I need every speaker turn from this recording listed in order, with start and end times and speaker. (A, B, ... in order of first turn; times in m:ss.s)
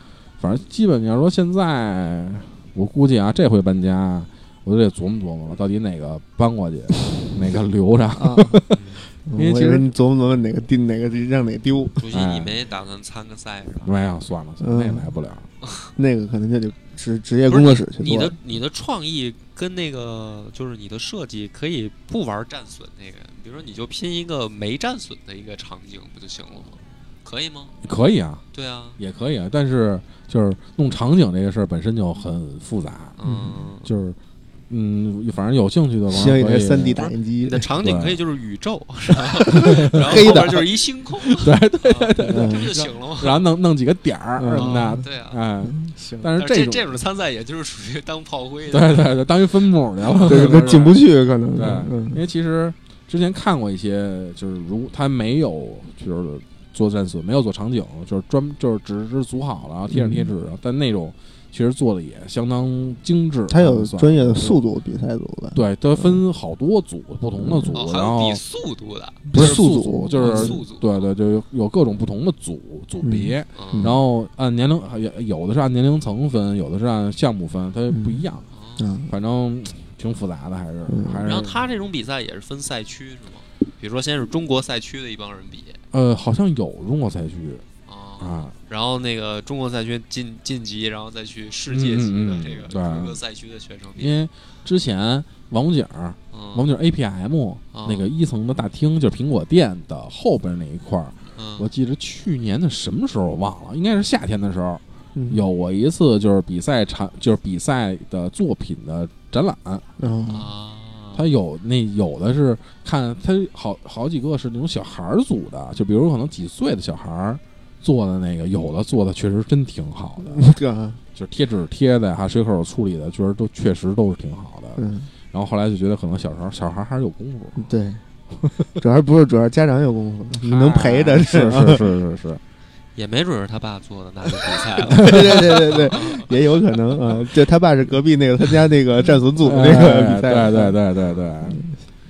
0:00.4-0:09.9 A
0:08.1-0:08.6 B
0:08.7-0:09.1 C
0:09.3-0:12.1 B
0:12.0-0:13.9 C
0:12.1-0:12.6 A
0:13.8-0:15.5 A
0:14.6-0:15.1 B
0:15.6-0:15.9 C
0:16.0-0:18.4 B
0:17.5-0:27.7 C
0:27.8-0:28.4 A
0:28.5-0:29.0 C
0:29.0-0:33.2 A
0:33.2-0:33.9 C
0:33.2-0:33.6 B
0:33.8-0:34.2 A
0:34.7-0:37.1 A
0:36.1-0:37.7 B
0:36.7-0:43.4 C
0:37.8-0:38.2 A
0:39.4-0:40.4 A
0:39.6-0:40.8 B
0:41.3-0:46.8 A
0:42.3-0:42.8 B
0:44.4-0:45.0 B
0:44.5-0:45.4 C
0:45.6-0:46.3 B
0:46.4-0:49.1 C
0:48.7-0:51.0 A
0:50.2-0:52.2 B
0:50.3-0:50.9 C
0:51.5-1:04.6 A
0:59.9-1:00.3 B
1:03.5-1:06.2 B
1:05.5-1:08.4 A
1:07.4-1:07.7 B
1:07.7-1:11.1 C
1:09.3-1:10.6 B
1:09.3-1:18.5 A
1:13.0-1:14.0 B
1:13.6-1:13.9 C
1:17.9-1:18.2 B
1:18.5-1:18.9 C
1:18.8-1:19.1 B
1:19.1-1:21.6 A
1:20.9-1:21.2 B
1:21.2-1:25.8 C
1:25.9-1:27.6 A
1:27.9-1:34.1 C
1:28.2-1:28.5 A
1:31.7-1:33.2 A
1:34.0-1:50.0 A
1:36.3-1:36.7 C
1:37.7-1:38.1 C
1:41.4-1:41.7 C
1:45.1-1:45.4 B
1:50.0-1:50.5 B
1:50.3-1:51.2 C
1:51.1-2:00.5 A
2:00.2-2:01.0 B
2:01.1-2:07.6 A
2:04.8-2:05.1 B
2:07.6-2:08.0 B
2:08.8-2:11.9 B
2:10.3-2:12.4 A
2:12.9-2:17.2 C
2:14.8-2:20.8 B
2:19.4-2:21.6 A
2:21.4-2:21.8 B